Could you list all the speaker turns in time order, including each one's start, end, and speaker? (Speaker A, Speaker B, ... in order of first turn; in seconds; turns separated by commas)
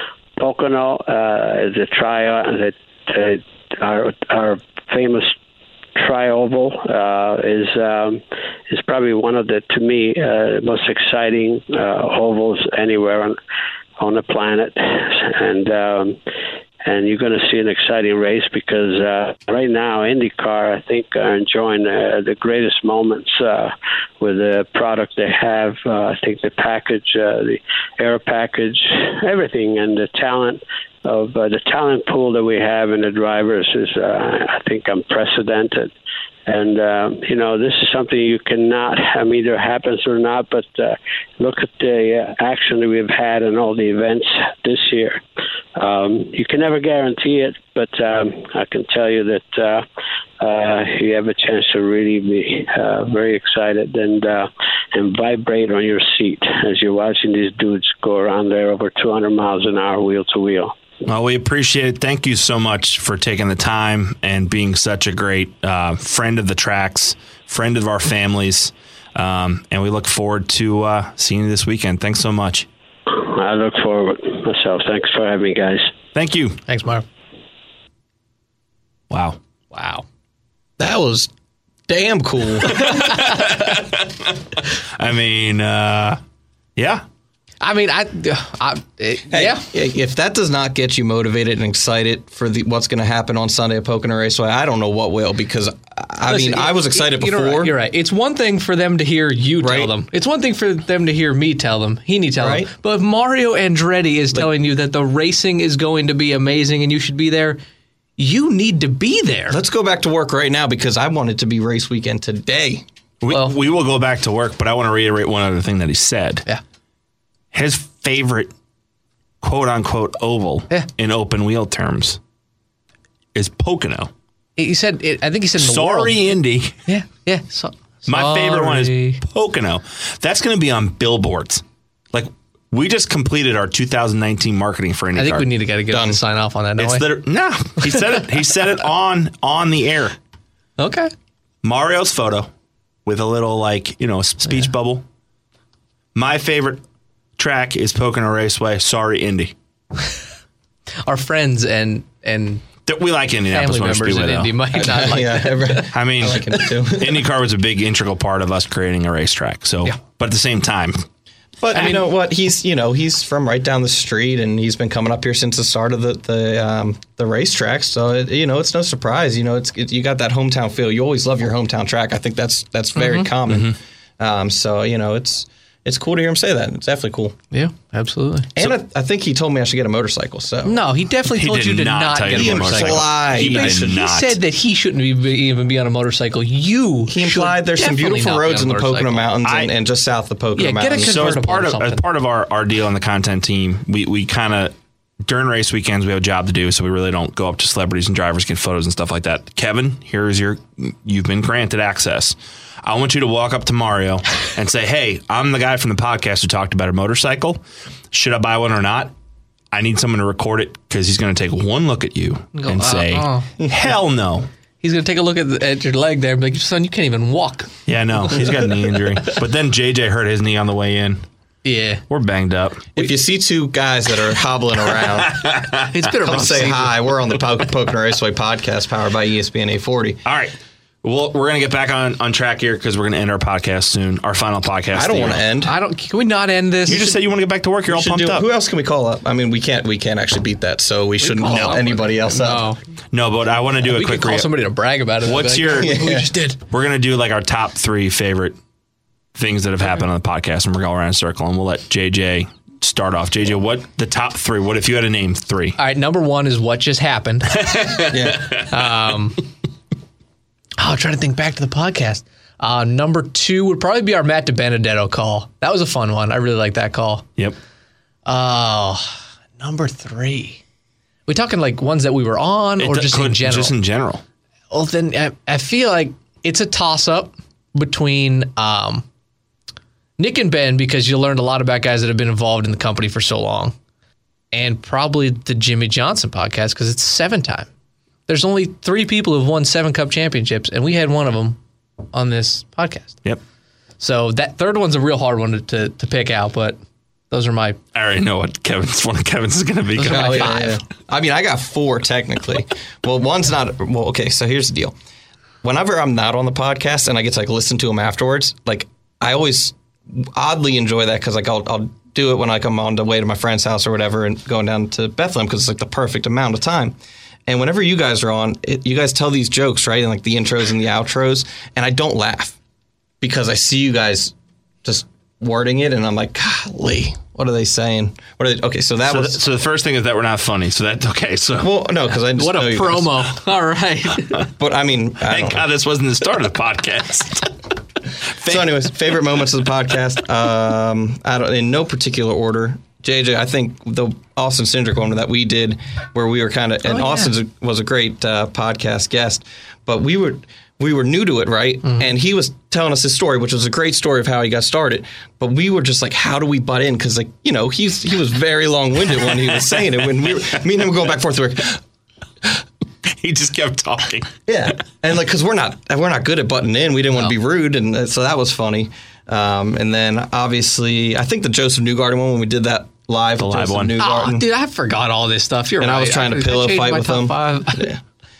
Speaker A: 0.4-5.3, Speaker A: 6.0-13.4, Speaker A: 14.0-16.2, Speaker A: 16.9-35.9, Speaker A: 36.5-45.2, Speaker A: 45.8-49.9, Speaker A: 50.4-60.7, Speaker B: 61.1-72.7, Speaker A: 73.1-75.9, Speaker B: 76.2-76.6, Speaker C: 76.7-77.0, Speaker B: 79.1-79.4, Speaker C: 79.7-80.0, Speaker D: 80.8-81.3, Speaker D: 81.9-83.1, Speaker B: 82.8-86.2, Speaker B: 86.8-87.0, Speaker C: 87.6-89.7, Speaker D: 89.3-97.7, Speaker C: 96.3-107.6, Speaker D: 99.6-99.9, Speaker D: 102.4-102.7, Speaker C: 108.2-109.6, Speaker D: 109.5-112.8, Speaker B: 113.2-116.5, Speaker B: 117.5-118.5, Speaker B: 119.4-122.2, Speaker B: 123.3-124.1, Speaker C: 124.6-126.2, Speaker B: 125.6-126.8, Speaker C: 126.9-129.2, Speaker B: 128.1-135.5, Speaker C: 135.2-137.1, Speaker D: 135.9-136.2, Speaker B: 136.8-140.2, Speaker C: 140.8-141.1, Speaker B: 141.6-142.5, Speaker B: 143.1-145.0, Speaker B: 146.2-146.8, Speaker B: 147.4-149.5, Speaker C: 151.1-152.7, Speaker B: 152.9-154.6, Speaker C: 153.5-156.8, Speaker D: 154.8-157.2, Speaker B: 155.9-161.1, Speaker D: 161.6-177.4, Speaker C: 161.7-162.0, Speaker C: 172.9-173.3, Speaker B: 173.5-173.8, Speaker C: 177.5-178.6, Speaker D: 178.6-180.8, Speaker C: 180.7-189.2, Speaker B: 181.3-184.4, Speaker D: 182.3-183.9, Speaker D: 187.1-191.4, Speaker B: 189.4-189.7, Speaker C: 190.6-192.0, Speaker B: 191.0-209.1, Speaker B: 209.7-214.5, Speaker C: 212.5-213.5, Speaker C: 214.8-217.8, Speaker B: 217.9-221.2, Speaker C: 221.6-222.0, Speaker B: 222.1-222.9, Speaker D: 223.0-225.4, Speaker B: 225.0-225.9, Speaker C: 225.9-227.1, Speaker D: 226.2-230.2, Speaker B: 230.2-235.4, Speaker D: 234.9-235.7, Speaker C: 235.6-237.2, Speaker B: 236.9-238.4, Speaker D: 237.9-242.6, Speaker C: 241.2-242.8, Speaker B: 241.5-241.9, Speaker B: 243.1-244.5, Speaker C: 243.8-246.6, Speaker B: 245.2-246.0, Speaker D: 245.8-246.3, Speaker B: 246.7-248.6, Speaker B: 249.3-255.8, Speaker C: 255.8-257.7, Speaker B: 257.6-258.7, Speaker D: 258.1-258.6, Speaker C: 258.7-259.4, Speaker C: 260.8-267.3, Speaker C: 268.3-270.6, Speaker C: 271.3-273.7, Speaker B: 272.8-274.2, Speaker C: 274.7-279.1, Speaker C: 280.2-283.8, Speaker C: 284.5-287.7, Speaker C: 288.3-291.6, Speaker C: 292.1-293.2, Speaker C: 294.0-297.8, Speaker B: 297.9-300.6, Speaker C: 299.9-300.8, Speaker D: 300.1-304.9, Speaker D: 305.6-316.9, Speaker D: 317.5-322.6, Speaker D: 323.2-329.4, Speaker B: 329.1-331.7, Speaker D: 331.6-333.3, Speaker C: 332.4-334.5, Speaker D: 334.5-335.7, Speaker B: 335.3-337.5, Speaker B: 338.4-338.7, Speaker D: 338.4-361.8, Speaker C: 346.9-347.3, Speaker B: 363.1-364.4, Speaker D: 364.5-374.5, Speaker B: 373.4-373.9, Speaker C: 374.0-377.9, Speaker D: 375.8-378.0